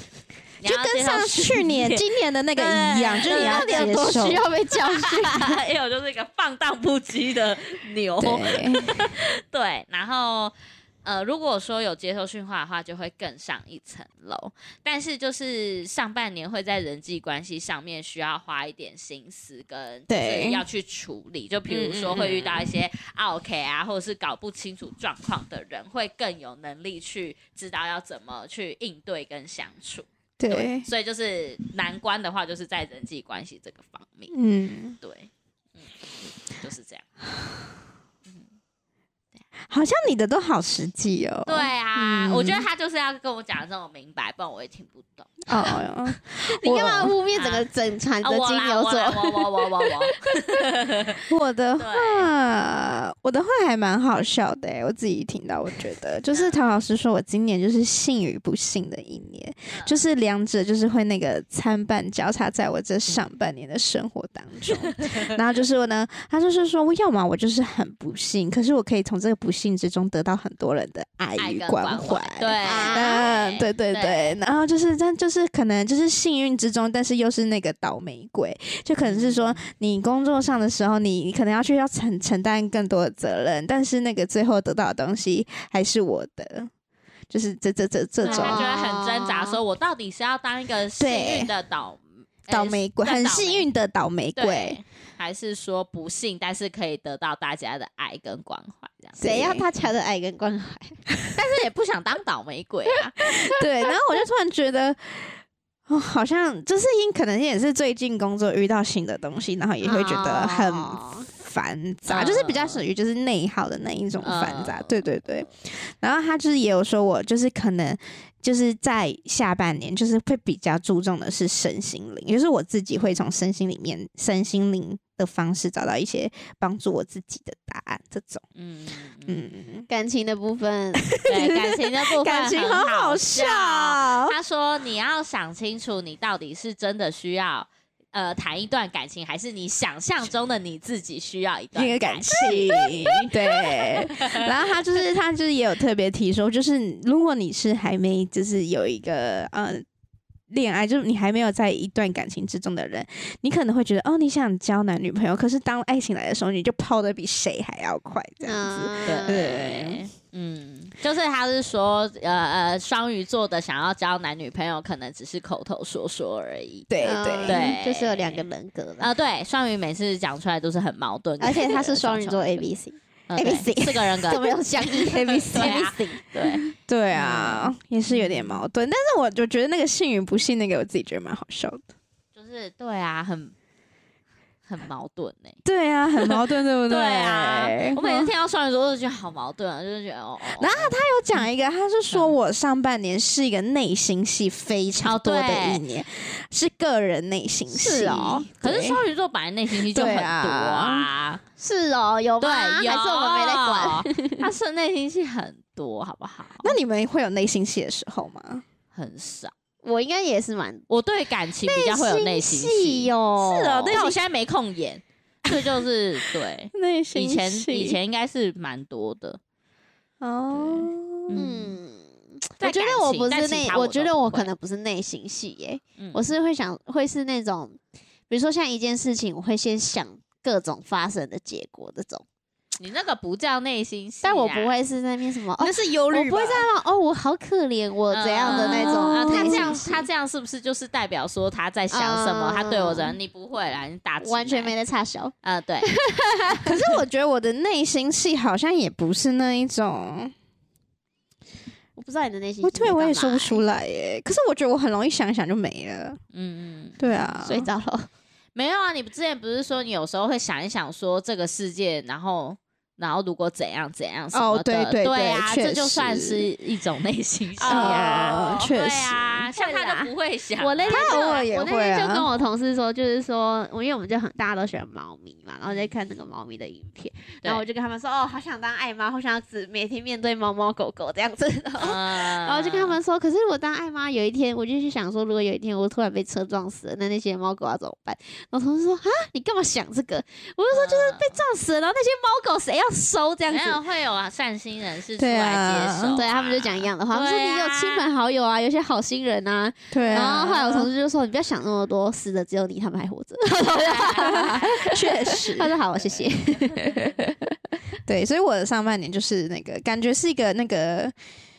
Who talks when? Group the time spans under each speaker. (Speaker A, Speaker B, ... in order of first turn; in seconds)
Speaker A: 0.6-4.2, 4.7-34.3, 35.0-37.1, 41.5-45.4, 47.3-47.7, 48.2-52.3, 56.3-56.6, 59.7-60.0, 71.4-74.4, 79.0-79.6, 88.2-93.7, 94.4-99.9, 101.4-103.1, 112.1-112.8, 114.2-115.3, 128.6-129.4, 131.3-144.7, 159.1-166.9, 167.5-168.4, 169.0-172.7, 173.3-178.6, 182.3-183.5, 184.7-185.6, 186.2-191.5, 195.0-195.8, 198.5-201.4, 202.4-206.7, 208.9-209.5, 210.9-219.4, 220.5-221.8, 222.6-224.5, 232.8-234.7, 238.1-244.7, 245.4-245.9, 256.3-257.0, 258.6-271.4, 275.7-275.9, 281.8-283.0, 290.7-291.4, 293.5-298.1, 300.1-300.6, 303.6-304.9
Speaker B: 0.6-4.4, 8.2-9.0, 20.1-20.6, 21.7-22.6, 30.4-30.9, 34.3-35.0, 39.7-42.6, 45.5-47.1, 51.3-86.7, 87.3-88.7, 91.0-91.5, 92.5-94.8, 99.2-99.7, 103.2-128.4, 129.3-129.9, 131.1-134.3, 141.8-149.8, 150.5-160.1, 166.9-167.7, 176.7-181.8, 185.6-188.3, 190.6-199.0, 199.9-201.1, 206.6-208.6, 213.4-214.0, 216.7-218.0, 220.2-221.4, 235.6-236.7, 238.4-239.8, 246.6-250.3, 252.6-256.2, 257.0-257.7, 264.3-266.5, 267.7-269.5, 270.9-272.3, 295.2-296.2, 299.9-300.9, 304.2-305.7, 308.1-311.1
Speaker C: 3.2-5.6, 46.4-50.6, 72.6-73.2, 88.2-89.6, 99.2-101.0, 109.8-111.3, 129.9-131.2, 158.4-159.6, 167.0-169.1, 171.4-176.6, 197.7-198.5, 201.6-204.5, 209.8-210.9, 211.6-214.2, 221.3-227.8, 228.3-232.2, 234.2-240.0, 241.9-243.2, 244.2-246.7, 252.0-253.6, 257.4-258.1, 267.6-268.7, 269.6-293.8, 296.1-307.5